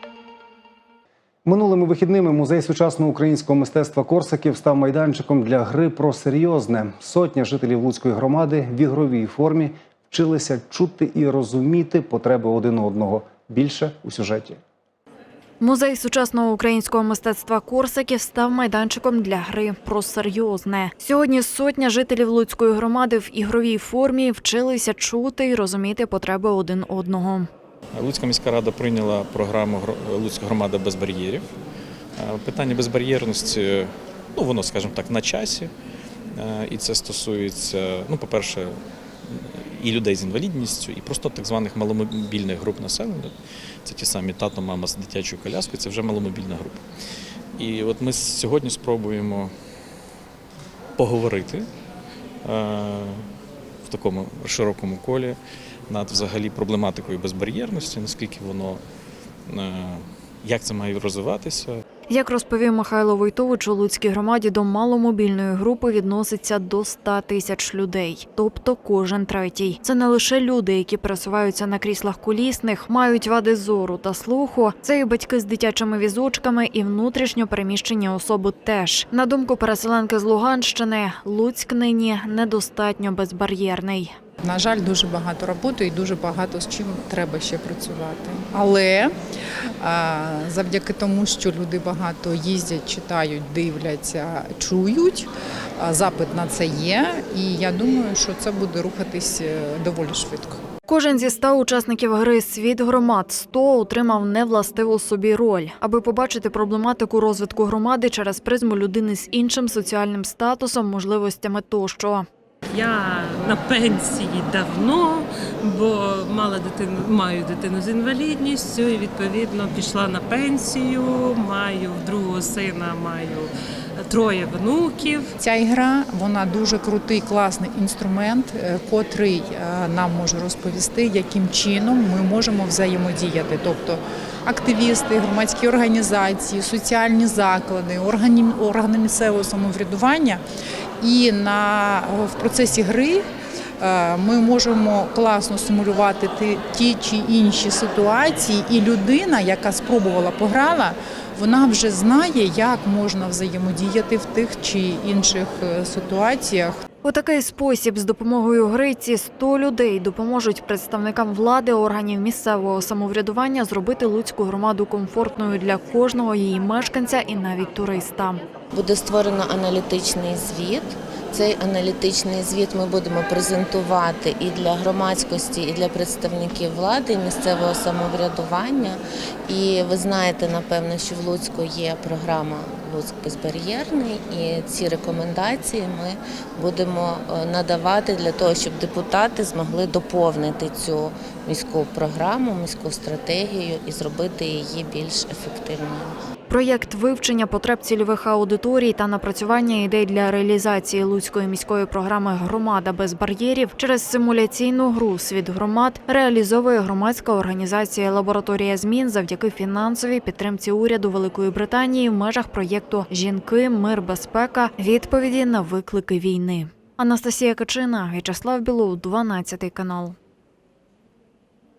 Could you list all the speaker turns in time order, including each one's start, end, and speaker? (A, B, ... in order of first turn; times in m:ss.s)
0:01.4-0:14.6 A
0:15.6-0:27.5 B
0:27.9-0:31.4 C
0:32.2-0:35.7 C
0:36.3-0:38.7 C
0:39.2-0:43.3 C
0:43.8-0:46.8 C
0:47.6-0:49.5 C
0:51.0-0:51.6 C
0:52.4-0:53.2 C
0:53.8-0:55.4 C
0:55.9-0:58.8 C
0:59.5-1:01.8 C
1:02.1-1:24.1 B
1:24.4-1:29.1 D
1:29.8-1:40.6 D
1:40.9-1:52.2 B
1:52.7-2:05.3 E
2:05.4-2:20.4 D
2:21.0-2:23.2 D
2:23.8-2:36.8 D
2:37.0-2:48.4 B
2:48.7-3:16.1 F
3:16.5-3:40.2 B